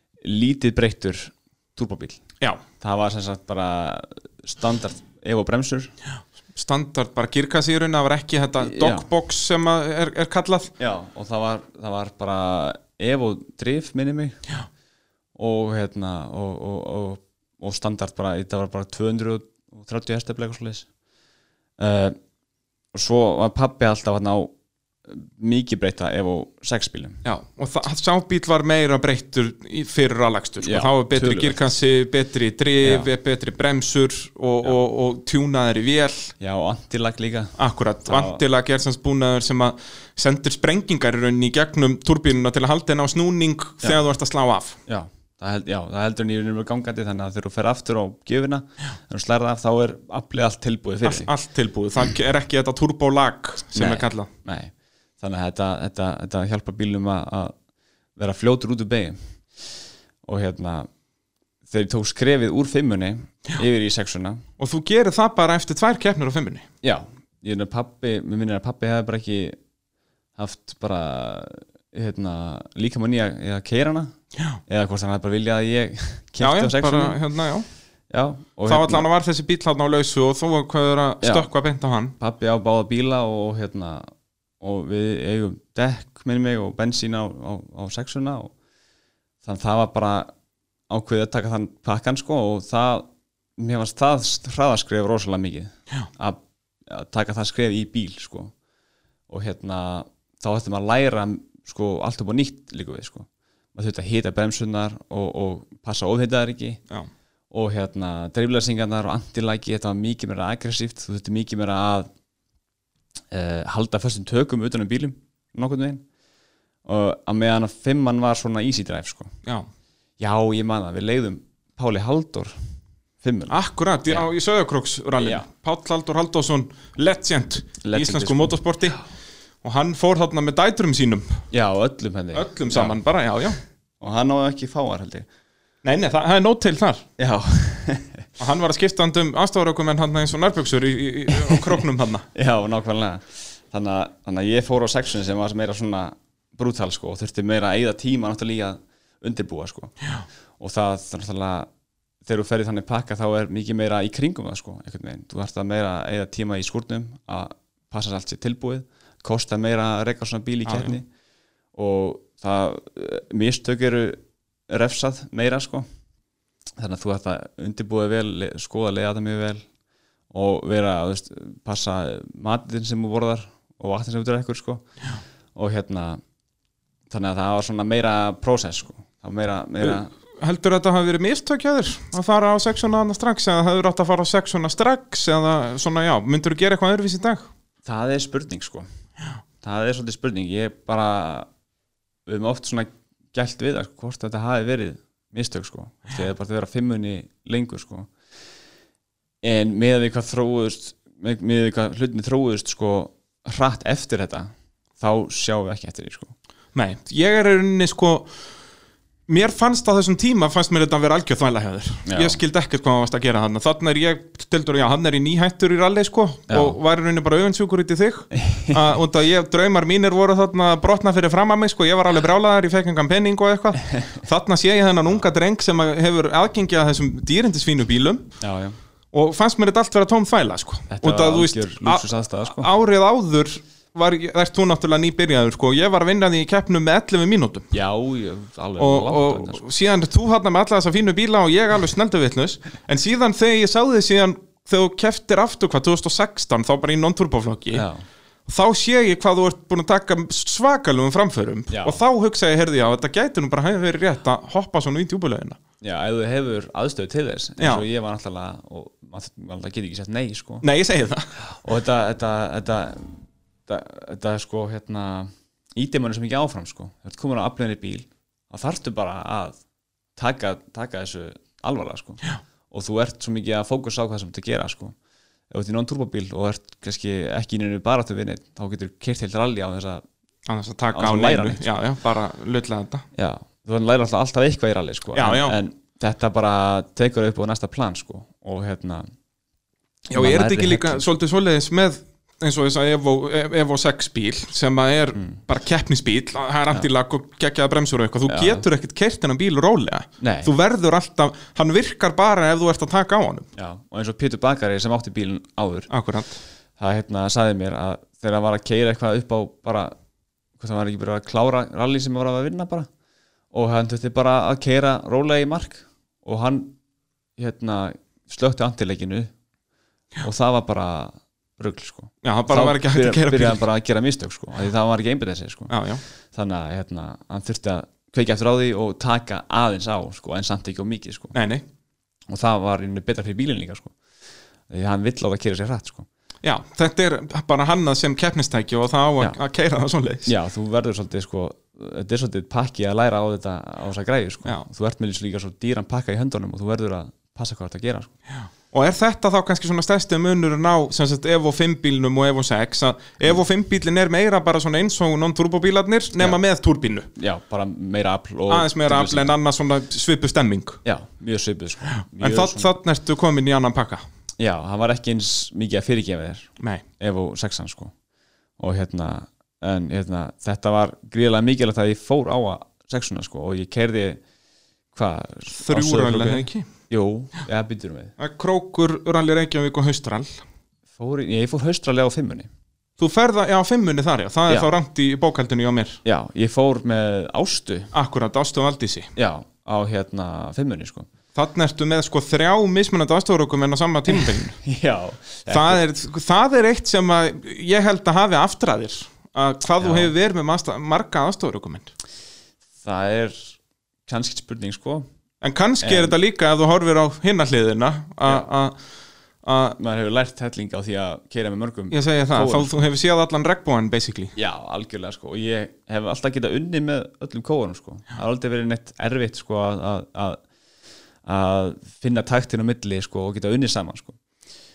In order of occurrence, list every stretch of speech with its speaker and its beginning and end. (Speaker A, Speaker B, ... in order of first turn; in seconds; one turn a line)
Speaker A: 0.2-2.2
Speaker A: 2.8-5.9
Speaker B: 6.5-10.7
Speaker A: 8.6-9.1
Speaker A: 10.8-14.4
Speaker A: 15.4-20.9
Speaker A: 21.8-22.2
Speaker A: 22.9-24.5
Speaker A: 25.1-27.2
Speaker B: 27.2-36.3
Speaker A: 30.6-31.7
Speaker A: 32.8-33.1
Speaker A: 36.4-37.6
Speaker B: 37.6-44.8
Speaker A: 38.1-38.4
Speaker A: 44.9-51.3
Speaker B: 51.0-54.3
Speaker A: 53.7-57.5
Speaker A: 58.2-59.2
Speaker A: 60.2-60.9
Speaker A: 61.7-64.4
Speaker B: 64.6-66.7
Speaker A: 66.8-69.6
Speaker A: 70.4-74.1
Speaker A: 74.7-77.2
Speaker B: 76.4-77.7
Speaker A: 78.1-79.1
Speaker B: 78.7-82.2
Speaker A: 81.2-81.5
Speaker A: 82.2-88.5
Speaker A: 89.4-90.3
Speaker A: 90.9-98.5
Speaker A: 99.3-106.8
Speaker A: 107.5-112.1
Speaker A: 113.3-116.0
Speaker A: 116.8-119.4
Speaker A: 120.2-122.6
Speaker A: 123.2-123.6
Speaker B: 123.5-129.0
Speaker A: 125.2-125.5
Speaker A: 127.8-128.5
Speaker B: 129.6-131.4
Speaker A: 131.5-133.0
Speaker B: 132.3-133.6
Speaker A: 134.0-135.3
Speaker B: 135.8-137.1
Speaker A: 137.2-138.3
Speaker B: 138.4-142.3
Speaker A: 141.4-141.7
Speaker A: 142.3-149.9
Speaker A: 150.6-151.7
Speaker A: 152.2-161.1
Speaker B: 160.7-160.9
Speaker A: 161.8-165.9
Speaker A: 166.8-169.7
Speaker A: 170.3-174.9
Speaker A: 175.6-176.2
Speaker A: 177.1-180.1
Speaker B: 179.8-187.5
Speaker A: 187.8-188.9
Speaker A: 189.6-191.5
Speaker A: 192.3-198.1
Speaker A: 199.4-206.3
Speaker B: 206.7-208.3
Speaker B: 209.3-228.3
Speaker A: 212.1-212.4
Speaker A: 216.5-216.8
Speaker A: 218.3-218.8
Speaker A: 223.9-224.2
Speaker A: 228.4-228.8
Speaker B: 229.1-237.7
Speaker A: 230.9-232.7
Speaker A: 237.7-239.6
Speaker B: 238.8-247.9
Speaker A: 247.7-248.1
Speaker B: 248.5-255.6
Speaker A: 251.7-252.0
Speaker A: 255.8-260.7
Speaker B: 257.6-257.9
Speaker B: 260.6-261.3
Speaker A: 261.6-269.6
Speaker A: 270.2-274.9
Speaker A: 275.5-280.0
Speaker B: 280.5-283.1
Speaker A: 280.9-281.7
Speaker A: 283.1-289.1
Speaker B: 285.1-285.6
Speaker A: 290.1-291.1
Speaker B: 290.1-303.5
Speaker A: 298.3-298.6
Speaker A: 300.2-300.5
Speaker A: 303.6-305.9
Speaker B: 305.9-306.4
Speaker A: 306.8-309.9
Speaker A: 310.6-312.9
Speaker A: 313.5-316.8
Speaker A: 317.4-319.3
Speaker A: 320.2-325.8
Speaker B: 322.2-323.6
Speaker B: 325.7-326.0
Speaker A: 326.3-331.4
Speaker B: 331.3-331.6
Speaker A: 332.3-334.0
Speaker A: 334.7-336.1
Speaker B: 336.4-340.3
Speaker A: 340.3-348.1
Speaker B: 348.4-357.1
Speaker A: 357.2-359.3
Speaker B: 358.5-360.8
Speaker A: 360.9-362.7
Speaker B: 361.9-364.0
Speaker A: 364.4-367.9
Speaker B: 366.6-366.8
Speaker A: 368.6-374.2
Speaker A: 374.9-378.1
Speaker B: 375.5-376.7
Speaker B: 378.2-380.4
Speaker A: 381.0-382.5
Speaker B: 383.0-386.0
Speaker A: 386.1-387.9
Speaker B: 387.9-389.1
Speaker A: 389.2-391.1
Speaker B: 391.4-394.6
Speaker A: 394.1-395.8
Speaker B: 395.5-401.9
Speaker A: 399.8-400.1
Speaker A: 402.8-405.1
Speaker B: 405.4-408.8
Speaker A: 405.8-406.2
Speaker B: 409.4-409.8
Speaker A: 409.8-412.8
Speaker B: 411.9-414.3
Speaker A: 414.4-420.4
Speaker A: 421.2-424.2